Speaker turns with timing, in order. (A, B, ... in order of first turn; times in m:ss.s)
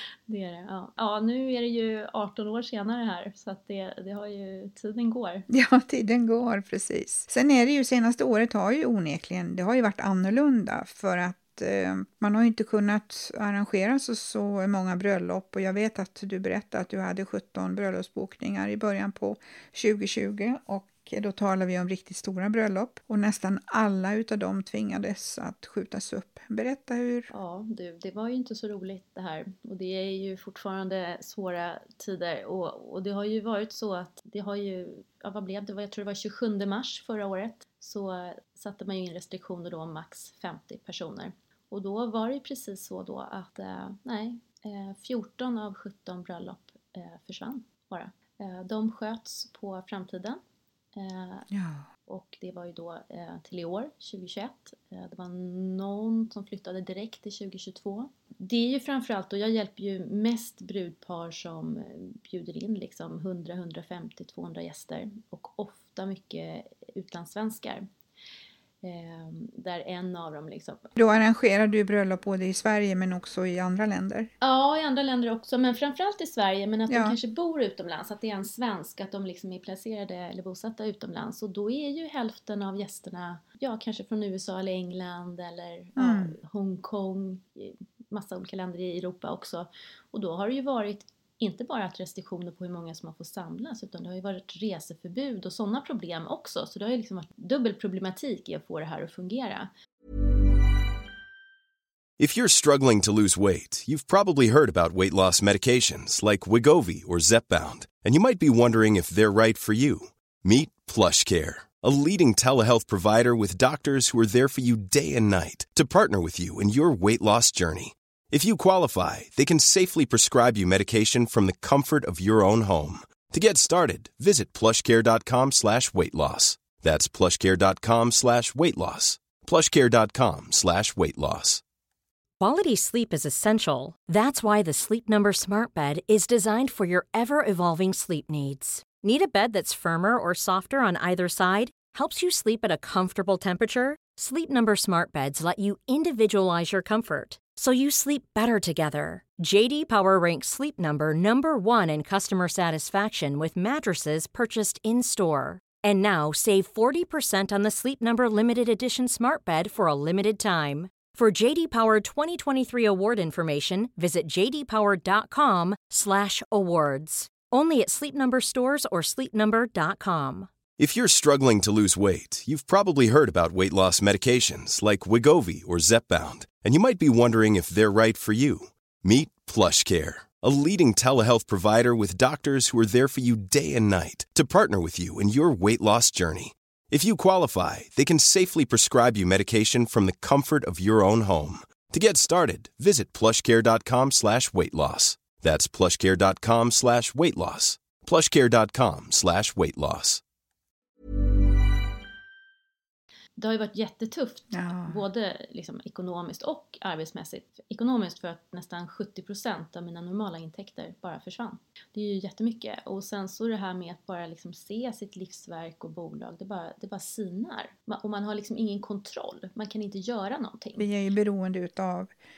0:00.3-0:05.5 A
0:05.5-0:27.3 B
0:27.3-0:50.4 A
0:51.0-0:51.5 A
0:51.5-0:51.9 B
0:52.1-1:07.9 A
1:08.8-1:10.8 A
1:11.0-1:14.3 B
1:14.4-1:39.7 A
1:16.9-1:17.2 B
1:26.0-1:26.4 B
1:42.2-2:11.6 C
2:12.4-2:50.5 D
2:50.8-3:20.2 C
3:23.4-3:40.9 A
3:24.5-3:25.0 B
3:40.8-3:42.1 B